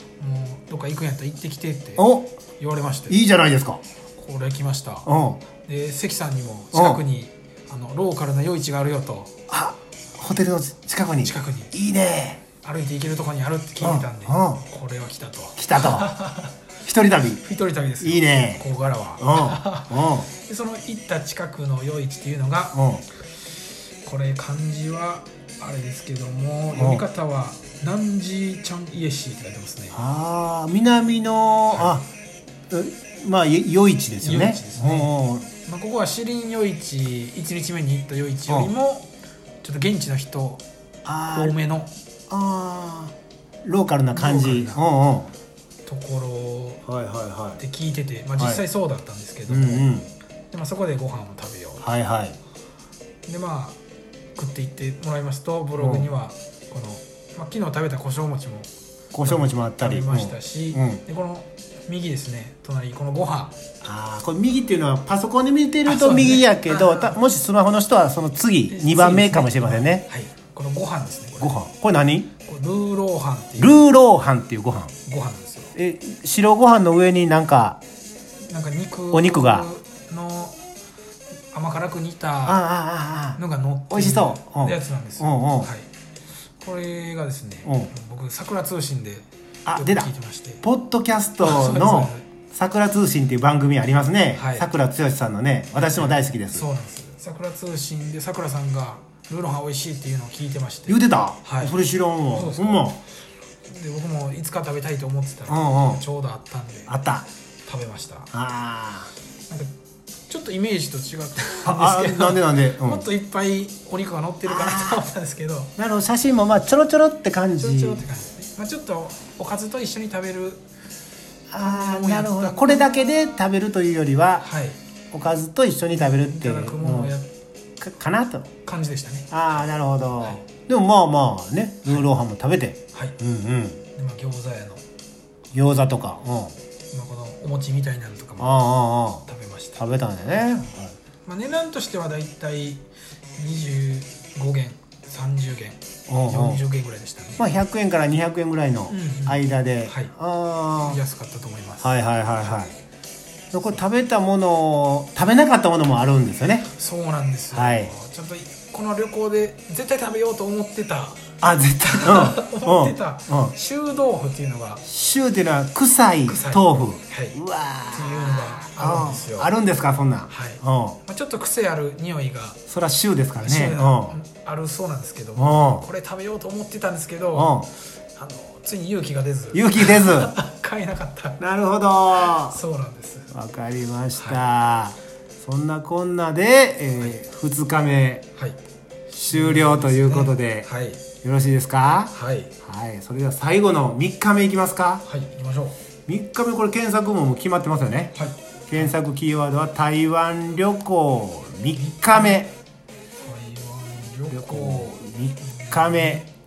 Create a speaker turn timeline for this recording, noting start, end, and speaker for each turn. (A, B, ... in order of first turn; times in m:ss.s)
0:00.2-0:02.1 A
0:02.0-0:02.4 B
0:02.6-0:03.2 A
0:03.1-0:03.8 B
0:04.2-0:05.1 A
0:05.0-0:05.4 B
0:05.6-0:09.3 A
0:06.7-0:07.0 B
0:09.5-0:12.4 B
0:11.2-0:11.7 A
0:12.6-0:16.5 A
0:13.8-0:14.6 B
0:15.6-0:16.2 B
0:16.8-0:17.4 B
0:17.4-0:22.8 A
0:18.0-0:18.6 B
0:19.2-0:20.3 B
0:22.7-0:23.0 B
0:24.0-0:30.0 A
0:26.7-0:27.0 B
0:29.9-0:32.1 B
0:31.7-0:32.0 A
0:32.7-0:35.5 B
0:34.2-0:35.1 A
0:35.6-0:39.1 A
0:38.5-0:38.7 B
0:39.6-0:40.6 A
0:41.0-0:41.6 B
0:41.3-0:41.9 A
0:42.3-0:45.3 B
0:44.1-0:44.8 A
0:45.8-0:46.8 A
0:46.8-0:47.6 B
0:47.6-0:49.9 A
0:48.4-0:48.6 B
0:49.5-0:50.1 B
0:50.5-0:51.9 A
0:51.8-0:52.4 B
0:53.2-0:53.8 A
0:54.4-0:58.7 A
0:55.8-0:56.1 B
0:59.1-1:01.0 B
0:59.2-1:03.5 A
1:03.8-1:10.0 B
1:05.8-1:07.2 A
1:08.7-1:11.6 A
1:11.4-1:12.3 B
1:12.4-1:13.8 A
1:13.6-1:14.9 B
1:15.0-1:15.7 A
1:15.7-1:17.8 B
1:18.4-1:20.6 A
1:19.1-1:19.7 B
1:21.5-1:22.6 A
1:22.4-1:25.7 B
1:23.4-1:25.9 A
1:26.6-1:30.6 A
1:27.6-1:27.9 B
1:29.6-1:30.1 B
1:30.6-1:36.6 B
1:31.4-1:32.2 A
1:34.3-1:34.7 A
1:35.8-1:41.8 A
1:40.9-1:43.0 B
1:42.3-1:43.0 A
1:43.7-1:46.9 A
1:45.5-1:46.0 B
1:46.9-1:47.3 B
1:47.6-1:48.3 A
1:48.3-1:49.1 B
1:50.3-1:55.7 A
1:51.6-1:53.0 B
1:54.5-1:55.0 B
1:55.8-1:58.0 B
1:57.6-2:00.6 A
2:01.5-2:04.4 B
2:01.6-2:03.1 A
2:04.4-2:04.8 A
2:05.1-2:07.1 B
2:06.0-2:07.3 A
2:07.8-2:08.5 B
2:08.6-2:09.7 A
2:09.3-2:13.8 B
2:13.9-2:14.8 A
2:15.5-2:16.6 B
2:16.9-2:18.7 A
2:18.4-2:19.2 B
2:19.2-2:19.8 A
2:19.8-2:20.9 B
2:21.2-2:27.5 A
2:26.1-2:26.6 B
2:27.4-2:31.0 B
2:28.9-2:30.1 A
2:30.7-2:32.6 A
2:31.8-2:32.7 B
2:33.5-2:36.7 B
2:36.7-2:41.2 A
2:37.5-2:37.9 B
2:41.4-2:43.5 B
2:41.8-2:44.8 A
2:44.8-2:51.0 B
2:46.2-2:47.4 A
2:47.9-2:49.5 A
2:50.3-2:52.6 A
2:52.7-2:54.2 B
2:53.4-3:01.4 A
2:55.4-2:55.8 B
2:57.3-2:57.7 B
2:59.5-3:00.3 B
3:01.4-3:02.6 B
3:02.1-3:03.3 A
3:03.3-3:08.2 B
3:04.2-3:04.4 A
3:09.1-3:11.0 A
3:09.3-3:10.7 B
3:11.2-3:15.0 B
3:12.1-3:12.5 A
3:15.0-3:15.8 A
3:16.1-3:18.1 B
3:18.1-3:18.9 A
3:18.7-3:22.5 B
3:21.7-3:22.4 A
3:23.2-3:26.3 A
3:24.3-3:26.2 B